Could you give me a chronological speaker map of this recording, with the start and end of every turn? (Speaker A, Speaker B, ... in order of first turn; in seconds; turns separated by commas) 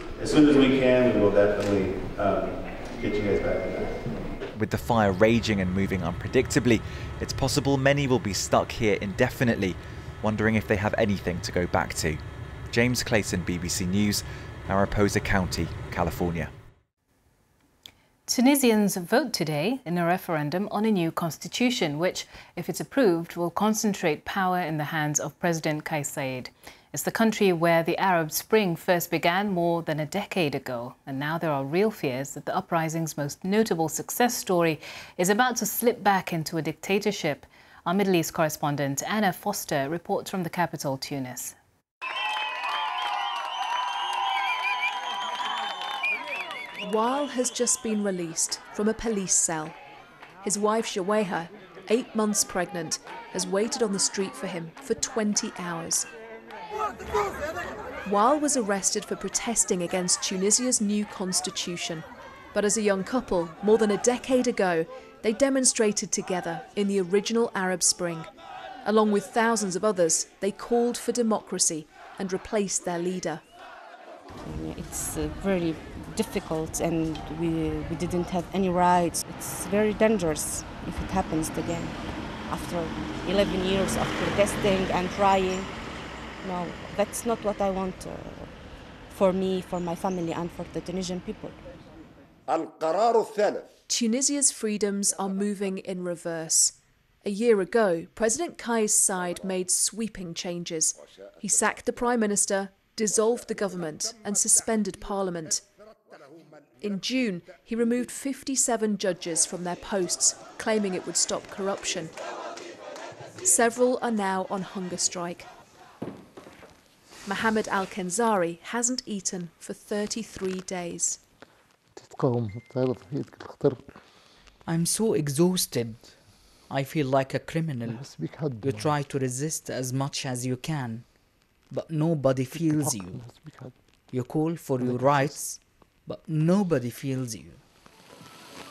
Speaker A: 0.2-3.9, Speaker B: 4.5-16.5, Speaker C: 18.3-41.5, Speaker D: 46.8-49.8, Speaker D: 50.4-56.1, Speaker D: 58.0-68.3, Speaker D: 68.8-73.4, Speaker E: 74.4-85.7, Speaker E: 86.4-88.6, Speaker E: 89.1-91.6, Speaker A: 92.5-93.7, Speaker D: 93.9-105.6, Speaker D: 106.8-112.1, Speaker D: 113.4-115.5, Speaker D: 117.2-121.2, Speaker F: 124.6-133.3, Speaker F: 134.1-137.6